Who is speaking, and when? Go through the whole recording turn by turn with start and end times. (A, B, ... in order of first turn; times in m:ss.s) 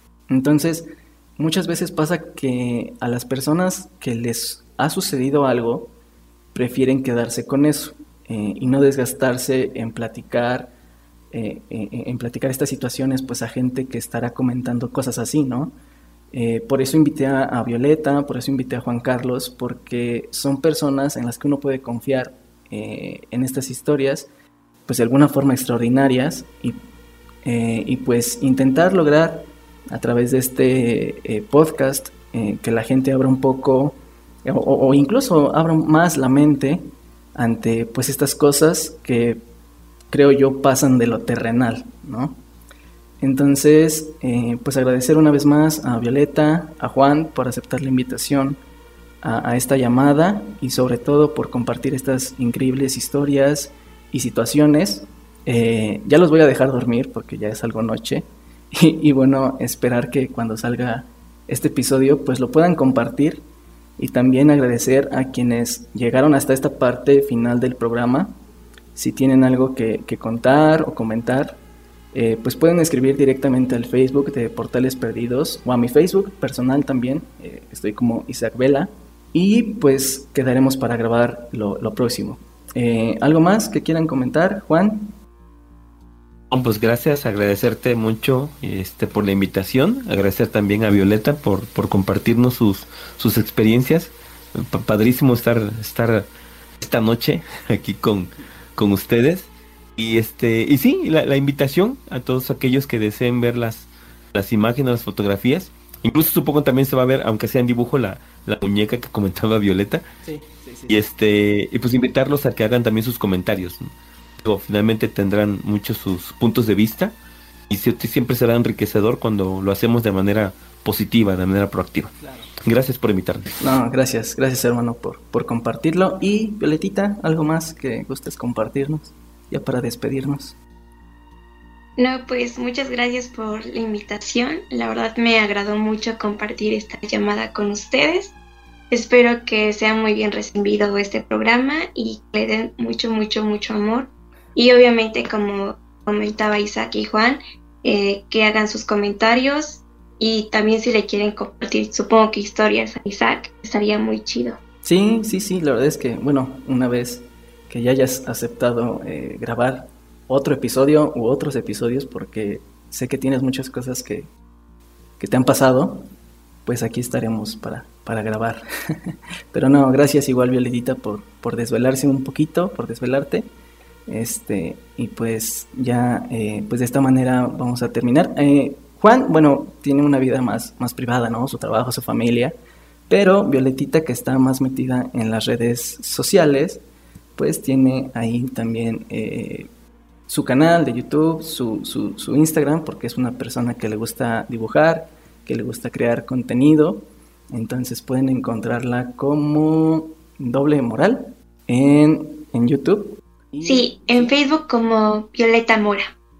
0:00.3-0:05.9 A
0:06.5-0:10.7 A
0:11.3-0:15.7 A
0:16.3-0:24.3 A
0:24.8-0:26.8 A
0:27.4-0:39.4 A
0:40.1-0:42.4 A
0:43.2-0:48.6 A
0:49.2-1:03.4 A
1:04.0-1:08.3 A
1:08.9-1:11.6 A
1:12.1-1:25.1 A
1:26.5-1:36.3 B
1:36.8-1:50.0 B
1:50.2-1:51.1 A
1:50.9-1:53.8 B
1:54.4-1:57.1 B
1:57.7-2:03.5 B
2:02.2-2:02.5 A
2:03.6-2:10.6 A
2:12.0-2:18.3 C
2:18.9-2:34.6 C
2:34.8-2:44.3 A
2:45.2-2:46.1 A
2:46.6-2:53.5 A
2:54.1-3:02.5 A
3:03.1-3:06.8 A
3:07.4-3:09.7 A
3:10.3-3:24.4 A
3:23.6-3:26.1 C